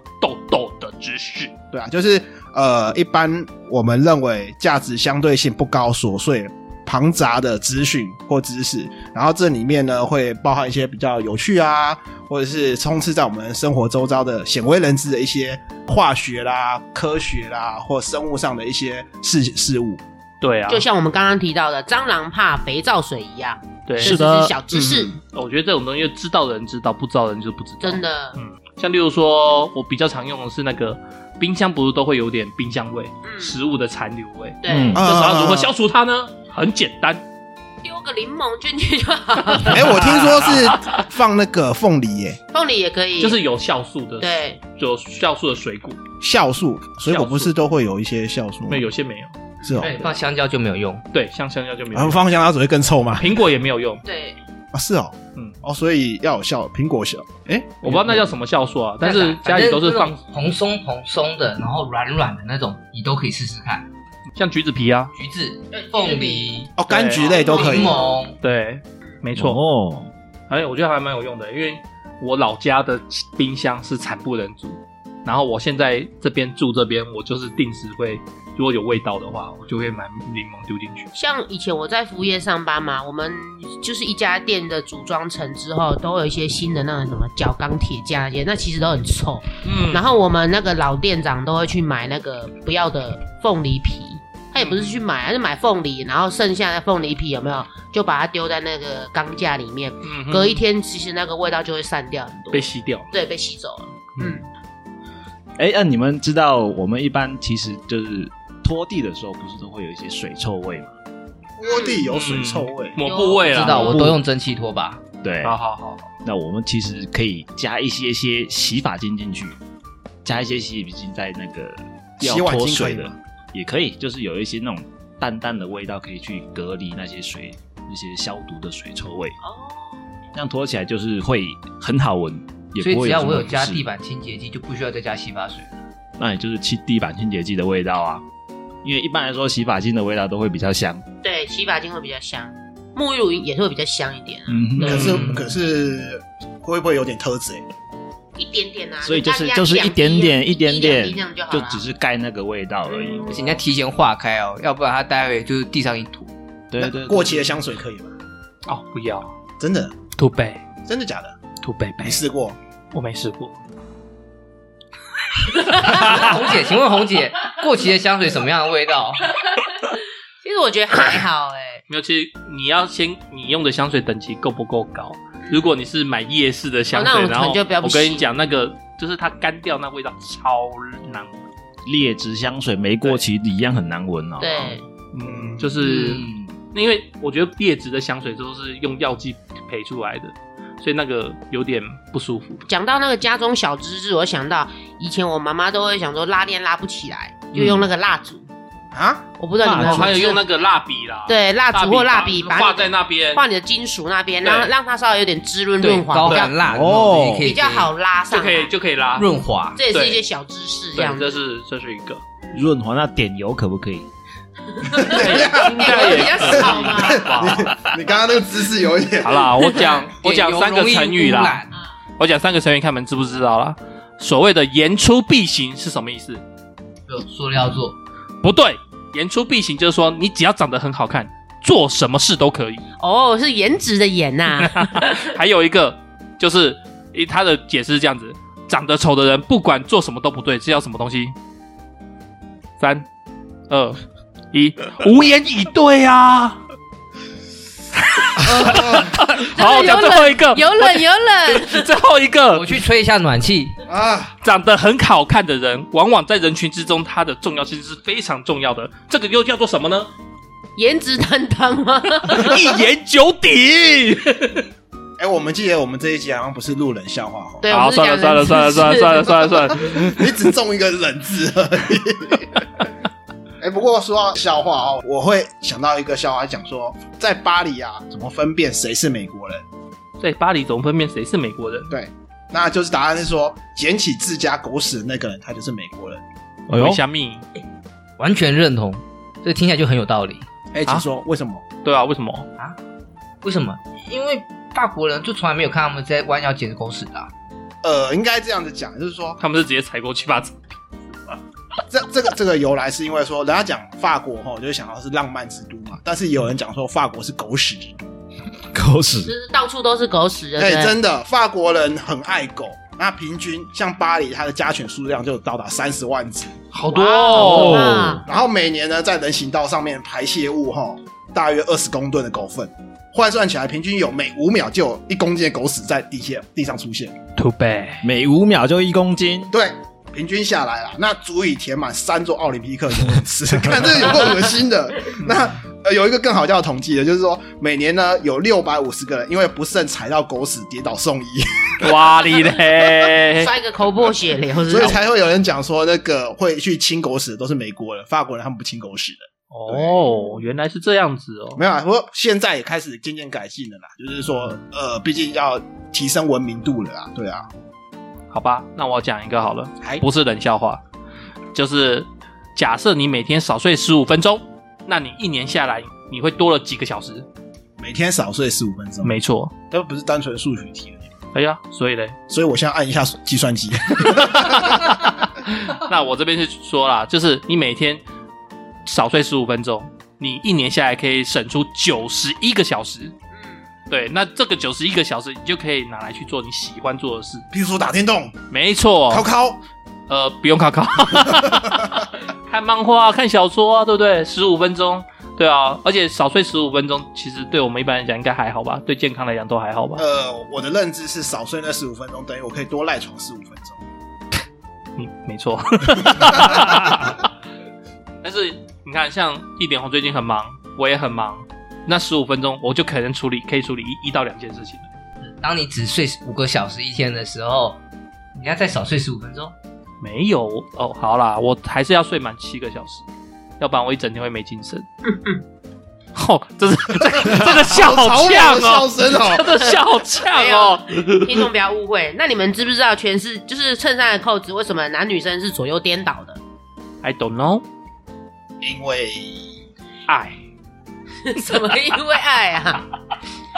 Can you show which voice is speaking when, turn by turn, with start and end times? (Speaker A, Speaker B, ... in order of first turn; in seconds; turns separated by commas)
Speaker A: 0.2-1.5, Speaker B: 1.7-20.0, Speaker A: 20.4-20.9, Speaker C: 20.7-25.2, Speaker A: 23.9-24.2, Speaker D: 24.0-24.6, Speaker B: 24.7-25.1, Speaker A: 25.1-37.2, Speaker C: 27.8-28.4, Speaker C: 33.2-33.5, Speaker C: 34.6-35.1, Speaker D: 34.7-35.0, Speaker B: 34.9-35.7, Speaker C: 37.8-40.0, Speaker B: 39.7-42.4, Speaker A: 40.5-40.9, Speaker C: 42.5-43.4, Speaker A: 43.2-46.0, Speaker C: 44.2-44.6, Speaker B: 46.2-48.8, Speaker A: 47.1-47.5, Speaker A: 48.7-49.3, Speaker B: 49.6-50.0, Speaker E: 49.8-51.0, Speaker A: 51.1-52.2, Speaker B: 51.9-53.4, Speaker A: 53.2-54.0, Speaker C: 54.0-54.4, Speaker B: 54.7-58.0, Speaker A: 57.8-60.2, Speaker E: 59.0-63.9, Speaker A: 64.3-65.1, Speaker E: 65.1-66.7, Speaker C: 65.7-66.5, Speaker B: 66.8-68.0, Speaker A: 66.9-67.3, Speaker C: 67.2-68.2, Speaker E: 67.3-68.4, Speaker A: 68.4-69.6, Speaker D: 69.3-70.1, Speaker A: 70.5-81.1, Speaker C: 81.2-104.4, Speaker A: 89.6-90.1, Speaker A: 94.6-95.0, Speaker A: 100.0-100.6, Speaker A: 102.5-103.1, Speaker D: 105.6-110.9, Speaker B: 111.6-113.0, Speaker C: 111.6-112.1, Speaker A: 112.1-114.0, Speaker C: 113.0-114.1, Speaker E: 113.4-115.0, Speaker D: 113.8-114.2, Speaker D: 115.2-115.6, Speaker A: 115.4-116.1, Speaker D: 116.2-119.6, Speaker D: 120.2-129.4, Speaker B: 122.2-123.1, Speaker C: 129.4-130.0, Speaker D: 130.3-133.8, Speaker E: 132.8-135.8, Speaker D: 136.2-138.2, Speaker D: 138.8-141.1, Speaker C: 141.2-145.2, Speaker D: 144.5-145.3, Speaker B: 144.8-147.7, Speaker A: 144.9-145.4, Speaker C: 148.4-151.8, Speaker D: 149.0-153.4, Speaker E: 153.2-156.3, Speaker D: 156.7-157.4, Speaker B: 156.8-158.2, Speaker A: 158.7-159.3, Speaker B: 159.6-159.9, Speaker A: 160.2-160.6, Speaker B: 160.9-161.3, Speaker A: 161.6-162.2, Speaker B: 162.0-162.6, Speaker A: 162.9-163.5, Speaker C: 165.6-166.4, Speaker E: 165.8-169.3, Speaker C: 170.4-171.8, Speaker A: 171.9-181.4, Speaker C: 175.5-175.7, Speaker C: 176.9-178.3, Speaker D: 181.9-184.7, Speaker C: 184.4-184.8, Speaker A: 185.1-192.7, Speaker B: 185.2-185.8, Speaker C: 185.8-186.2, Speaker C: 192.7-198.5, Speaker B: 198.9-199.3, Speaker C: 199.4-200.4, Speaker D: 199.6-200.1, Speaker A: 199.7-203.4, Speaker C: 201.3-206.6, Speaker A: 204.4-204.7, Speaker E: 205.8-207.9, Speaker D: 206.7-207.5, Speaker C: 207.4-208.7, Speaker A: 208.3-209.3, Speaker E: 209.2-209.8, Speaker C: 209.8-211.4, Speaker A: 209.9-210.2, Speaker A: 210.9-212.2, Speaker D: 212.5-214.1, Speaker C: 214.7-217.3, Speaker B: 214.9-219.6, Speaker A: 215.1-217.8, Speaker A: 219.2-221.6, Speaker E: 220.2-221.7, Speaker A: 222.2-226.4, Speaker E: 227.1-228.0, Speaker A: 228.4-232.8, Speaker C: 233.0-235.3, Speaker A: 234.6-241.3, Speaker A: 242.8-243.1, Speaker A: 243.7-244.0, Speaker A: 244.5-246.6, Speaker A: 248.0-252.7, Speaker C: 248.4-251.9, Speaker B: 248.6-249.1, Speaker E: 252.5-253.8, Speaker B: 253.9-254.3, Speaker A: 254.4-260.1, Speaker C: 260.8-262.7, Speaker A: 262.2-264.6, Speaker B: 265.2-267.6, Speaker C: 267.6-269.7, Speaker A: 267.7-270.2, Speaker B: 269.8-272.7, Speaker B: 273.6-279.6, Speaker A: 280.2-281.9, Speaker B: 281.9-286.2, Speaker D: 286.7-287.0, Speaker A: 286.7-287.4, Speaker E: 288.2-290.5, Speaker B: 290.7-291.6, Speaker A: 291.8-292.5, Speaker E: 293.4-297.3, Speaker B: 297.8-299.4, Speaker A: 299.4-300.6, Speaker B: 301.9-308.0, Speaker D: 308.7-309.3, Speaker C: 309.2-310.9, Speaker B: 310.6-316.6, Speaker A: 316.7-318.0, Speaker C: 316.9-318.2, Speaker D: 317.4-318.2, Speaker B: 318.2-327.2, Speaker A: 327.4-328.1, Speaker D: 328.0-329.5, Speaker B: 329.5-342.0, Speaker A: 335.2-335.5, Speaker A: 341.8-343.5, Speaker C: 343.4-345.0, Speaker B: 344.7-350.0, Speaker A: 349.5-351.6, Speaker B: 351.6-357.5, Speaker A: 358.3-360.8, Speaker A: 361.5-367.3, Speaker B: 367.8-369.2, Speaker A: 369.0-369.5, Speaker B: 369.7-371.1, Speaker A: 371.3-372.2, Speaker B: 372.3-375.0, Speaker A: 374.1-378.0, Speaker A: 378.9-383.1, Speaker A: 383.9-387.4, Speaker B: 387.5-388.4, Speaker A: 388.5-389.3, Speaker B: 389.1-389.6, Speaker A: 390.1-400.0, Speaker B: 391.2-391.9, Speaker B: 400.0-403.8, Speaker A: 405.0-407.3, Speaker B: 406.2-406.5, Speaker A: 408.2-414.9, Speaker E: 415.2-417.8, Speaker E: 418.4-419.6, Speaker A: 420.0-423.0, Speaker A: 423.6-424.9, Speaker C: 425.1-425.4, Speaker A: 426.1-431.5, Speaker B: 427.1-429.6, Speaker C: 430.3-436.4, Speaker A: 437.0-437.6, Speaker B: 438.6-439.5, Speaker A: 440.1-440.4, Speaker C: 441.2-442.9